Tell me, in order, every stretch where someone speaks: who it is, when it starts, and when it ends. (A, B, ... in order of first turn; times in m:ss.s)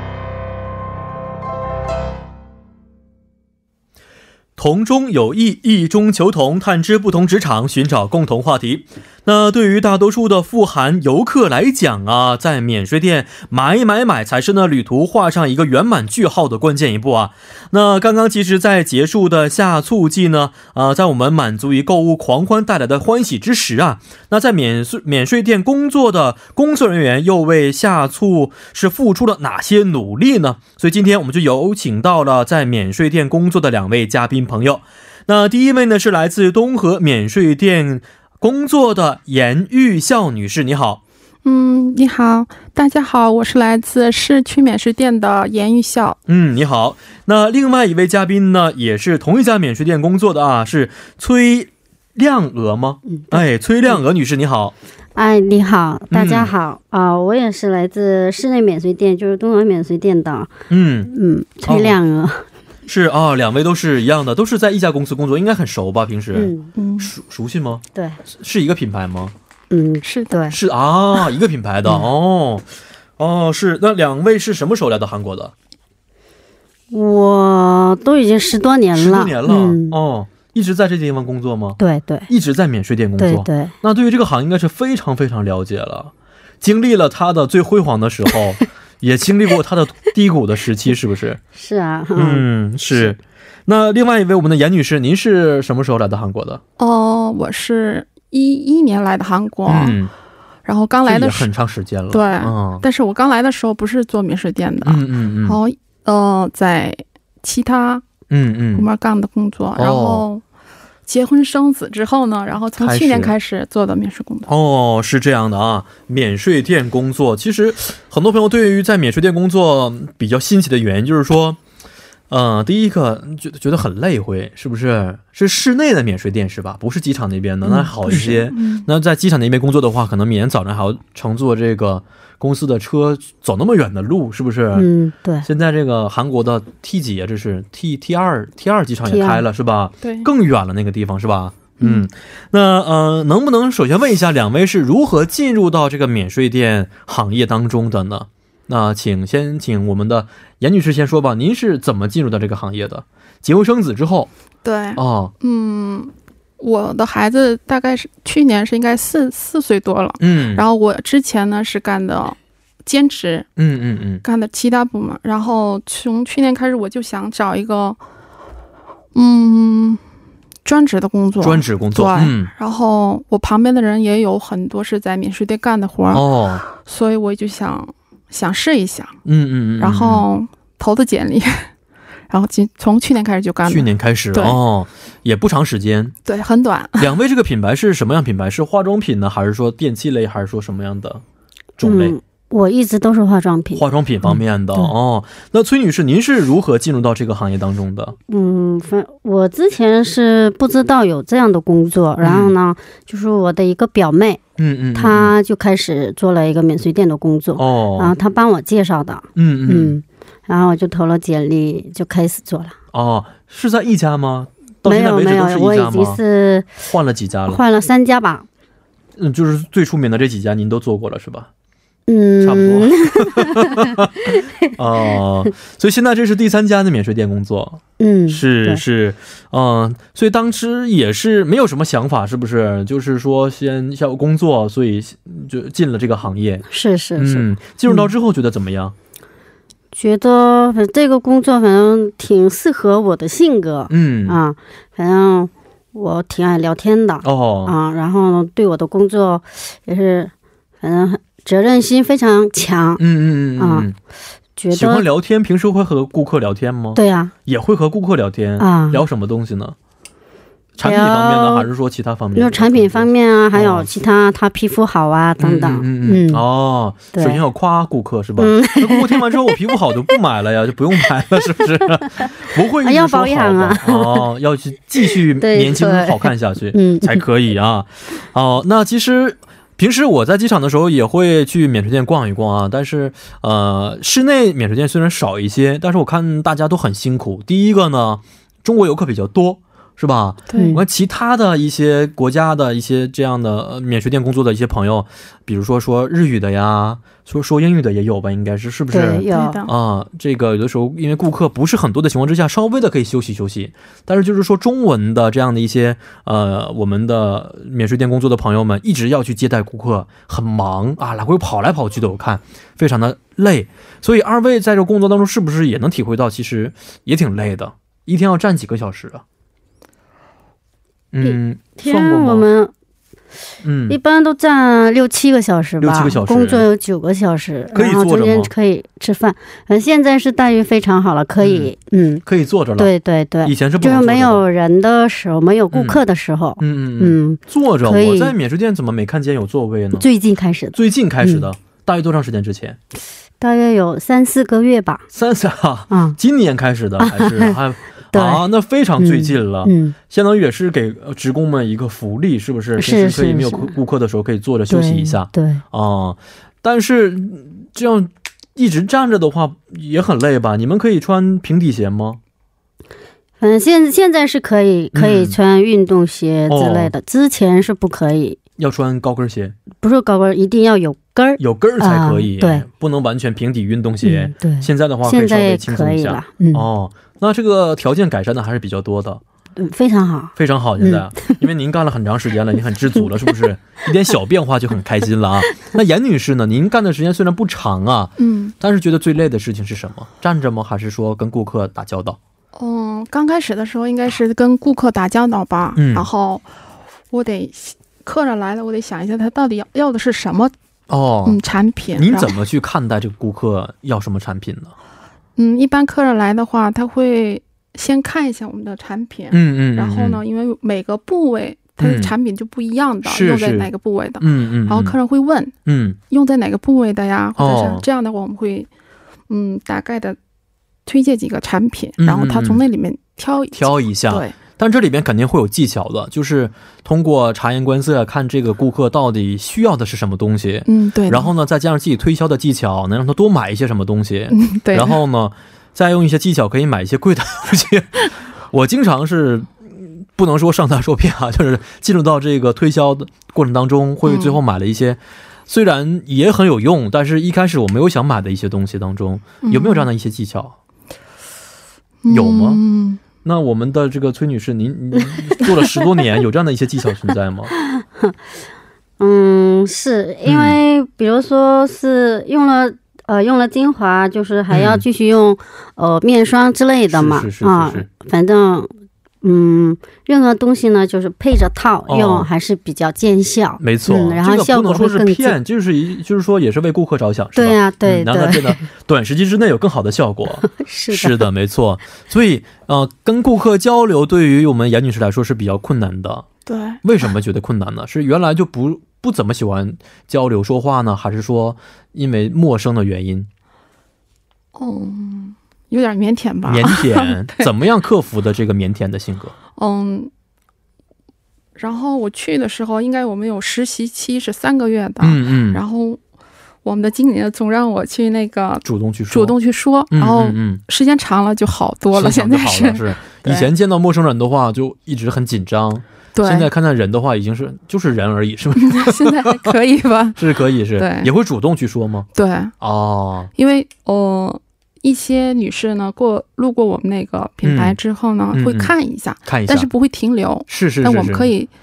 0:04.6-0:41.0 A
0:41.4-0:46.2 B
0:46.3-0:54.8 A
0:53.1-0:54.0 C
0:55.2-1:00.5 C
0:56.1-0:56.5 A
1:00.7-1:01.1 A
1:01.1-1:02.4 C
1:01.7-1:02.0 A
1:02.9-1:09.3 A
1:06.4-1:06.7 C
1:06.8-1:07.1 B
1:09.7-1:10.6 C
1:10.0-1:10.4 B
1:10.5-1:15.5 A
1:16.9-1:20.0 C
1:19.0-1:31.4 A
1:21.8-1:22.3 C
1:23.2-1:23.7 C
1:31.6-1:32.4 C
1:32.2-1:36.6 A
1:36.8-1:40.0 B
1:39.7-1:40.1 A
1:40.6-1:41.5 B
1:41.1-1:42.8 A
1:42.1-1:48.0 B
1:44.8-1:45.6 A
1:48.3-1:48.9 A
1:48.7-1:50.4 B
1:49.8-1:50.2 A
1:51.1-1:54.5 B
1:52.8-1:53.3 A
1:54.5-2:01.6 A
2:02.3-2:14.9 A
2:07.6-2:08.4 C
2:08.1-2:08.9 B
2:14.8-2:15.5 C
2:15.4-2:34.3 A
2:19.1-2:19.4 C
2:20.0-2:20.3 B
2:21.8-2:22.1 B
2:34.6-2:43.5 B
2:35.0-2:35.3 A
2:40.2-2:40.6 A
2:43.6-2:44.2 A
2:44.2-2:48.0 B
2:49.1-2:50.0 B
2:50.6-2:59.2 B
2:51.4-2:52.5 A
2:56.1-2:56.6 A
2:59.2-3:00.3 A
2:59.8-3:01.7 B
3:02.3-3:04.6 B
3:03.7-3:06.2 A
3:06.2-3:07.1 B
3:07.0-3:11.2 A
3:11.8-3:12.2 A
3:11.8-3:14.9 C
3:13.8-3:18.2 A
3:18.3-3:24.4 C
3:22.2-3:22.5 A
3:24.6-3:25.3 A
3:25.0-3:32.8 C
3:27.6-3:28.1 A
3:29.4-3:30.0 A
3:32.9-3:36.2 A
3:34.8-3:36.8 C
3:36.8-3:37.6 A
3:37.5-3:38.5 C
3:39.2-3:41.5 A
3:42.1-3:44.7 C
3:42.4-3:56.6 A
3:48.0-3:48.8 C
3:56.7-3:58.1 C
3:57.2-3:59.0 A
3:59.9-4:13.0 C
4:03.9-4:04.4 A
4:07.2-4:07.7 A
4:13.0-4:14.0 A
4:13.6-4:13.9 C
4:14.6-4:15.0 C
4:14.7-4:19.8 A
4:17.0-4:17.3 C
4:18.6-4:19.0 C
4:20.8-4:24.0 A
4:20.8-4:21.7 C
4:22.4-4:26.4 C
4:25.4-5:19.2 A
4:27.1-4:27.4 C
4:28.4-4:29.7 C
4:32.0-4:34.3 C
4:35.4-4:37.2 C
4:50.5-4:50.8 B
4:50.5-4:50.8 C
4:58.9-4:59.6 C
4:59.3-4:59.7 B
5:21.1-5:22.5 A
5:21.2-5:22.7 C
5:23.6-5:24.0 A
5:23.9-5:32.2 C
5:25.8-5:26.7 A
5:27.7-5:28.5 A
5:31.4-5:31.7 A
5:32.2-5:32.9 A
5:32.8-5:38.4 C
5:33.4-5:34.4 A
5:35.7-5:36.0 A
5:36.6-5:40.1 A
5:40.0-5:41.5 C
5:40.7-5:42.8 A
5:43.4-5:45.1 C
5:45.1-6:02.2 A
5:45.9-5:46.2 C
5:47.0-5:47.6 C
5:48.1-5:48.4 C
5:49.0-5:50.0 C
5:52.8-5:53.8 C
5:54.7-5:55.6 C
6:03.4-6:08.4 C
6:04.9-6:05.4 A
6:06.5-6:06.9 A
6:08.6-6:09.6 A
6:09.8-6:12.7 C
6:11.4-6:19.2 A
6:14.0-6:16.7 C
6:19.6-6:21.4 C
6:20.4-6:32.2 A
6:28.2-6:28.5 B
6:32.6-6:36.5 B
6:35.8-6:36.1 A
6:37.1-6:40.5 B
6:40.9-6:41.4 A
6:41.2-6:42.4 B
6:42.0-6:44.7 A
6:45.4-6:55.5 B
6:49.3-6:50.2 A
6:51.8-6:52.1 A
6:53.0-6:55.0 A
6:55.6-6:56.0 A
6:56.1-6:58.7 B
6:57.4-6:57.8 A
6:59.3-7:00.2 B
7:00.9-7:04.4 B
7:02.0-7:02.6 A
7:03.5-7:30.6 A
7:10.7-7:11.3 B
7:14.3-7:15.0 B
7:24.0-7:24.4 B
7:29.4-7:29.9 B
7:32.0-7:33.0 B
7:32.1-7:32.6 A
7:33.2-7:37.5 A
7:37.6-7:38.2 C
7:39.0-7:48.7 C
7:40.2-7:40.6 A
7:44.5-7:44.8 A
7:46.9-7:47.9 A
7:49.2-7:55.4 C
7:51.9-7:52.3 A
7:53.6-8:06.3 A
7:57.4-7:58.6 C
8:00.4-8:01.3 C
8:06.5-8:06.8 B
8:06.8-8:13.3 A
8:14.6-8:17.5 B
8:16.5-8:19.4 A
8:19.6-8:20.1 B
8:21.6-8:26.0 B
8:25.0-8:25.6 A
8:26.6-8:33.5 B
8:28.6-8:29.4 A
8:29.9-8:30.6 A
8:31.9-8:39.5 A
8:36.2-8:36.5 B
8:38.6-8:41.1 B
8:40.2-8:42.1 A
8:42.2-8:42.6 B
8:42.6-8:43.3 A
8:43.4-8:51.5 B
8:47.4-8:47.8 A
8:48.3-8:48.7 A
8:49.2-8:49.7 A
8:50.5-8:51.3 A